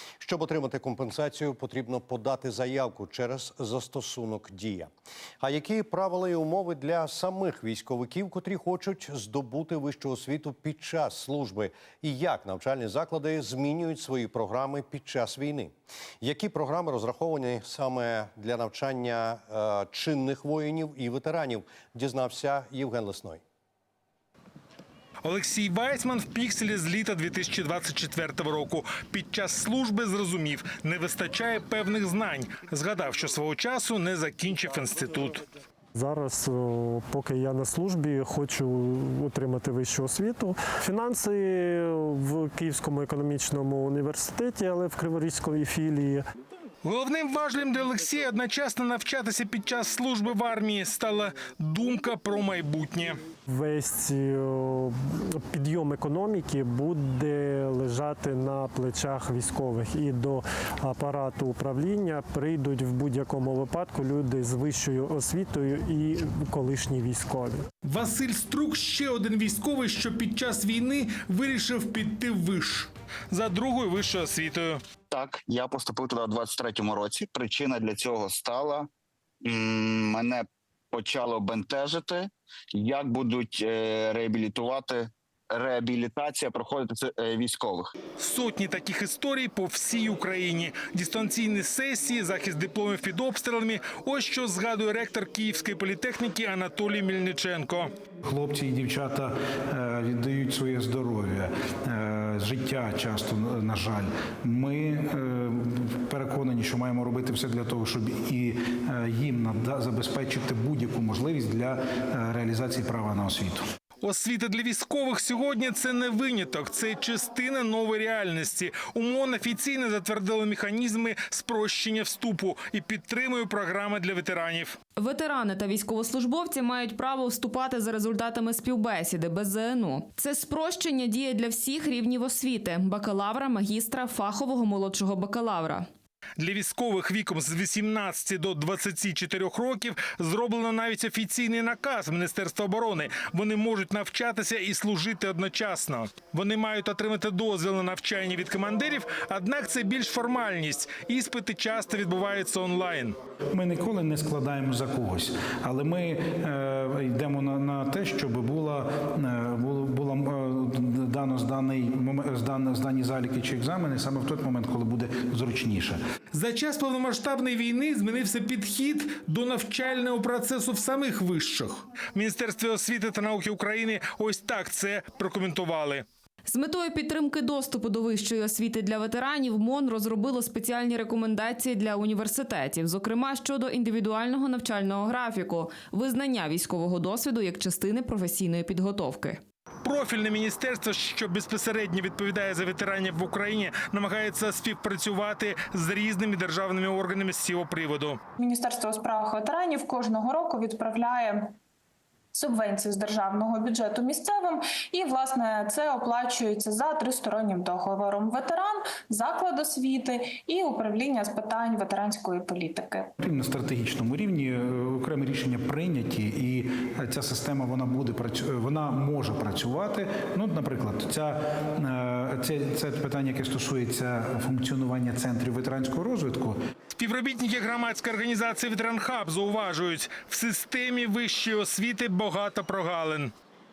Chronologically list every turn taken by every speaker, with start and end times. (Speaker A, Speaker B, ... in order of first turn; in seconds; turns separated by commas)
Speaker A: 0.2-4.9, Speaker A: 5.4-23.4, Speaker B: 25.2-35.4, Speaker C: 35.9-46.2, Speaker B: 46.8-53.2, Speaker C: 53.5-67.6, Speaker B: 67.8-74.8, Speaker D: 75.1-78.9, Speaker D: 79.4-87.9, Speaker B: 88.2-97.9, Speaker E: 98.2-113.6, Speaker B: 114.0-124.8, Speaker F: 125.0-135.9, Speaker B: 136.4-153.2, Speaker E: 153.5-166.0, Speaker B: 166.3-176.0, Speaker F: 176.5-189.4, Speaker B: 189.8-198.2, Speaker G: 198.4-201.5, Speaker G: 202.3-213.1, Speaker E: 213.2-226.6, Speaker B: 226.9-233.3